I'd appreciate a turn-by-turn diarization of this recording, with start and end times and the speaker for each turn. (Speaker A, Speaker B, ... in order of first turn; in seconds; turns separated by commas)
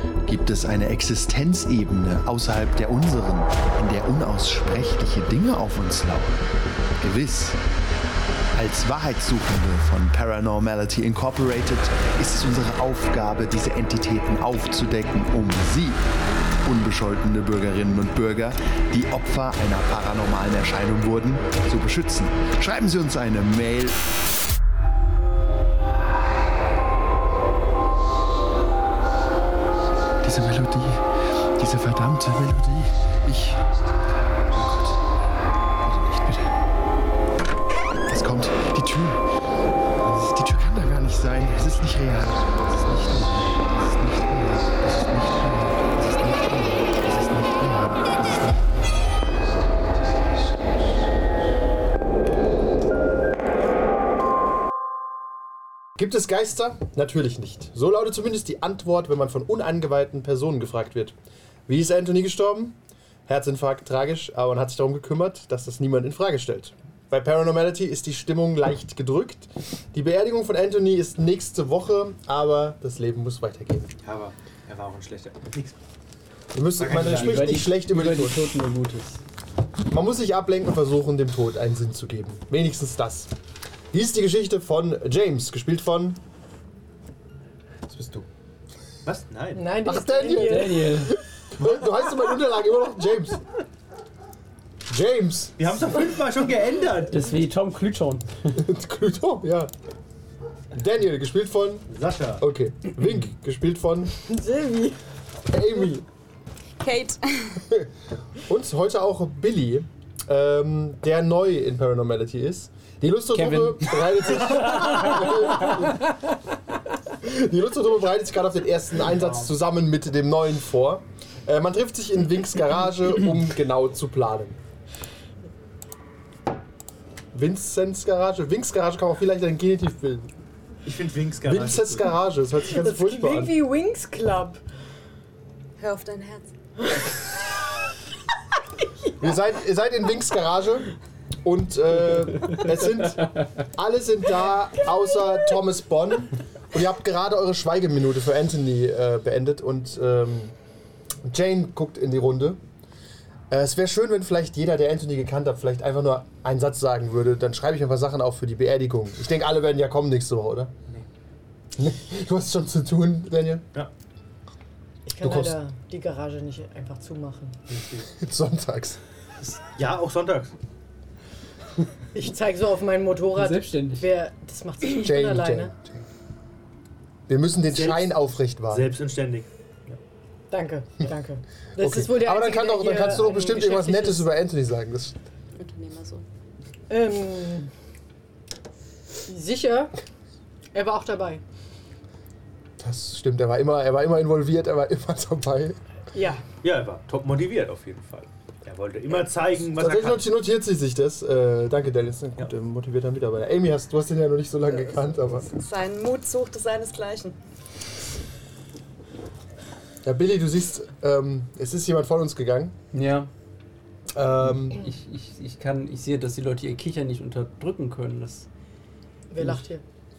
Speaker A: 0.2-6.4, Speaker A: 7.0-7.6, Speaker A: 8.5-16.0, Speaker A: 16.6-24.0, Speaker A: 30.2-31.0, Speaker A: 31.6-33.6, Speaker A: 35.8-36.5, Speaker A: 38.1-39.2, Speaker A: 40.0-49.1, Speaker B: 56.0-61.1, Speaker B: 61.7-73.9, Speaker C: 74.0-75.8, Speaker B: 76.5-78.5, Speaker C: 76.8-77.6, Speaker D: 76.9-79.2, Speaker B: 79.9-83.3, Speaker B: 83.9-86.2, Speaker B: 87.9-88.3, Speaker C: 89.0-89.8, Speaker E: 89.5-91.0, Speaker B: 89.8-93.4, Speaker D: 90.3-91.1, Speaker B: 94.9-95.7, Speaker C: 95.6-97.2, Speaker D: 97.1-98.6, Speaker B: 98.5-99.7, Speaker B: 100.7-101.9, Speaker C: 101.9-102.4, Speaker B: 102.4-104.1, Speaker E: 104.2-105.0, Speaker B: 105.5-106.0, Speaker F: 106.8-107.6, Speaker B: 107.6-116.1, Speaker D: 113.3-115.9, Speaker B: 117.2-124.6, Speaker B: 127.3-130.3, Speaker C: 130.8-132.1, Speaker B: 131.4-133.5, Speaker E: 132.7-134.6, Speaker F: 135.8-136.5, Speaker B: 139.2-140.9, Speaker B: 141.4-150.5, Speaker B: 151.2-152.6, Speaker B: 153.5-160.7, Speaker B: 161.8-163.6, Speaker E: 165.1-167.6, Speaker B: 165.2-165.6, Speaker C: 167.7-168.1, Speaker B: 168.1-169.0, Speaker C: 169.4-170.5, Speaker E: 172.1-175.7, Speaker D: 173.3-174.1, Speaker B: 174.9-176.0, Speaker B: 177.3-178.9, Speaker C: 177.6-178.1, Speaker C: 178.7-180.0, Speaker E: 180.5-184.3, Speaker B: 181.8-185.2, Speaker F: 185.6-186.2, Speaker E: 186.9-187.7, Speaker E: 189.3-189.9, Speaker E: 190.7-191.4, Speaker B: 192.8-195.8, Speaker E: 196.1-196.4, Speaker C: 196.6-200.2, Speaker B: 199.7-205.5, Speaker F: 204.6-207.4, Speaker B: 210.0-212.7, Speaker D: 212.9-213.3, Speaker B: 214.1-214.9, Speaker D: 214.5-218.5, Speaker E: 219.3-219.8, Speaker D: 219.4-219.6